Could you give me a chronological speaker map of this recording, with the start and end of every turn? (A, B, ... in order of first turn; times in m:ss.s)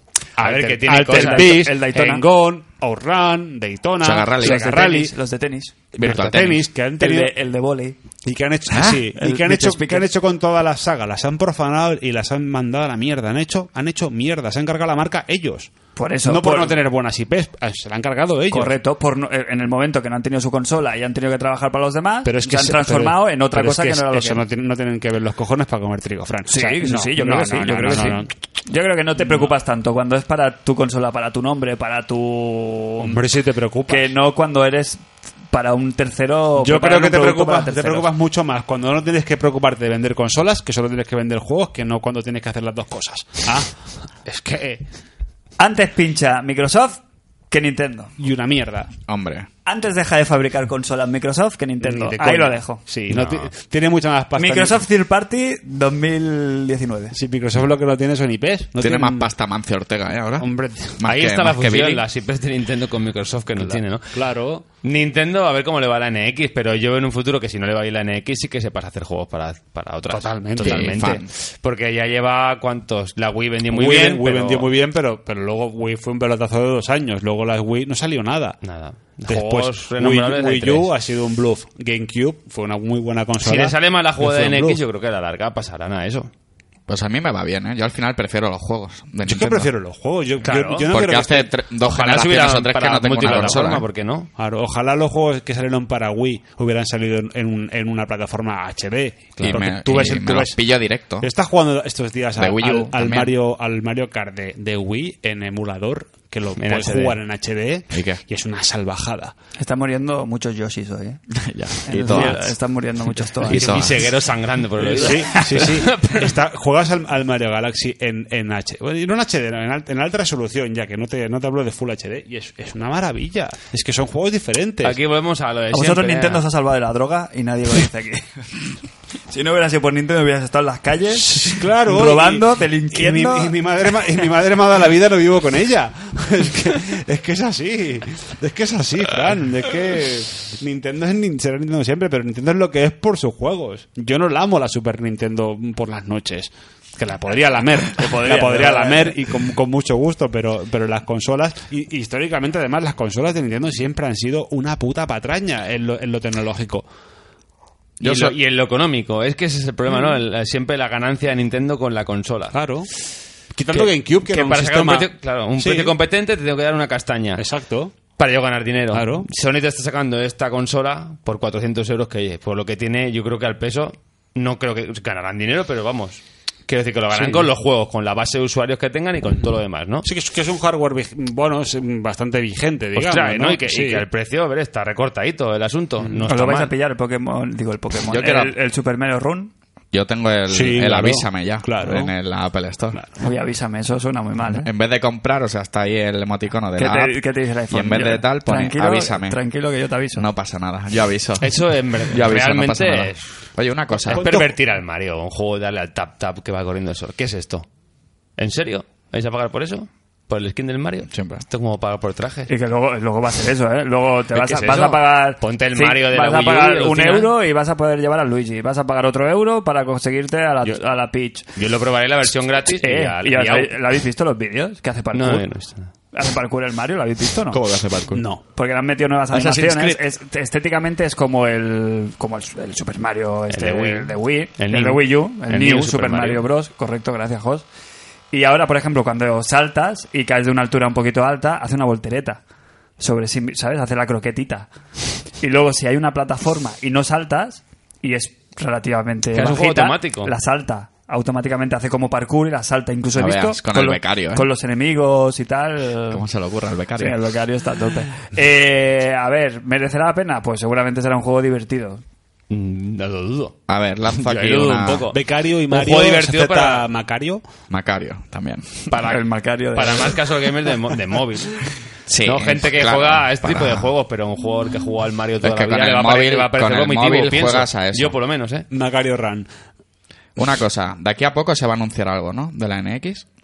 0:00.4-0:01.6 A
0:00.4-0:05.1 B
0:00.8-0:02.2 C
0:04.0-0:04.6 D
0:04.4-0:05.7 C
0:05.9-0:07.3 B
0:06.0-0:06.6 D
0:07.0-0:08.0 C
0:08.2-0:15.7 B
0:09.1-0:10.0 C
0:16.0-0:16.8 C
0:16.2-0:18.7 B
0:18.5-0:24.4 C
0:22.2-0:28.3 B
0:26.5-0:33.2 C
0:33.0-0:34.1 B
0:33.9-0:38.1 C
0:36.6-0:43.7 B
0:44.2-0:44.8 B
0:45.6-0:48.1 C
0:48.2-0:48.9 B
0:49.1-0:49.5 D
0:49.6-0:52.8 C
0:51.8-0:54.8 B
0:53.1-0:53.5 D
0:54.4-0:57.2 C
0:57.1-0:59.3 B
0:58.8-1:02.0 D
1:00.4-1:01.0 B
1:01.0-1:04.2 A
1:03.6-1:04.6 B
1:04.8-1:14.7 A
1:10.1-1:11.2 B
1:10.6-1:11.3 D
1:13.7-1:18.6 B
1:18.6-1:20.9 A
1:19.3-1:24.8 B
1:23.4-1:26.3 A
1:26.9-1:29.7 D
1:29.3-1:31.5 B
1:30.4-1:30.9 A
1:30.9-1:33.8 D
1:31.8-1:34.3 A
1:34.4-1:40.6 B
1:39.4-1:41.3 D
1:41.2-1:49.3 B
1:42.4-1:43.3 D
1:46.6-1:47.2 A
1:47.9-1:48.2 D
1:49.6-1:51.2 C
1:51.3-1:52.5 D
1:51.8-1:53.8 C
1:53.4-1:56.3 A
1:53.4-1:54.1 D
1:54.8-2:05.0 B
2:04.8-2:06.4 A
2:05.7-2:08.3 C
2:09.3-2:13.5 C
2:11.2-2:36.8 B
2:28.0-2:29.2 C
2:38.0-2:42.6 A
2:38.0-2:38.3 D
2:42.5-2:42.9 B
2:43.5-2:45.9 B
2:43.7-2:47.4 A
2:47.4-2:47.9 B
2:48.2-3:00.1 A
2:48.9-2:49.3 B
2:57.1-2:57.5 B
3:00.0-3:04.0 B
3:02.9-3:06.7 A
3:06.2-3:09.5 C
3:08.1-3:08.5 D
3:09.9-3:13.0 D
3:10.5-3:12.1 B
3:13.2-3:14.7 C
3:14.5-3:17.2 D
3:16.8-3:20.2 C
3:17.7-3:19.4 D
3:20.1-3:24.3 D
3:21.4-3:23.4 A
3:24.0-3:27.6 A
3:24.1-3:24.5 B
3:28.4-3:32.5 A
3:31.1-3:31.4 D
3:32.5-3:41.4 C
3:34.3-3:37.4 A
3:41.5-3:43.7 A
3:42.8-3:45.5 C
3:45.1-3:45.9 A
3:46.1-3:47.6 C
3:47.5-3:48.3 D
3:48.1-3:48.4 B
3:48.5-3:57.6 C
3:49.3-3:50.0 D
3:53.5-3:56.4 A
3:58.3-4:02.4 C
4:03.0-4:04.7 C
4:05.4-4:16.2 C
4:09.3-4:10.3 A
4:13.1-4:14.5 D
4:16.1-4:17.2 D
4:17.0-4:22.0 C
4:22.5-4:23.6 A
4:23.7-4:25.1 D
4:24.1-4:26.9 A
4:25.1-4:27.4 B
4:27.7-4:28.7 D
4:28.9-4:30.2 C
4:28.9-4:29.2 A
4:29.7-4:31.6 A
4:32.1-4:33.9 D
4:32.2-4:38.7 A
4:35.4-4:38.1 D
4:38.7-4:39.5 B
4:40.4-4:43.2 D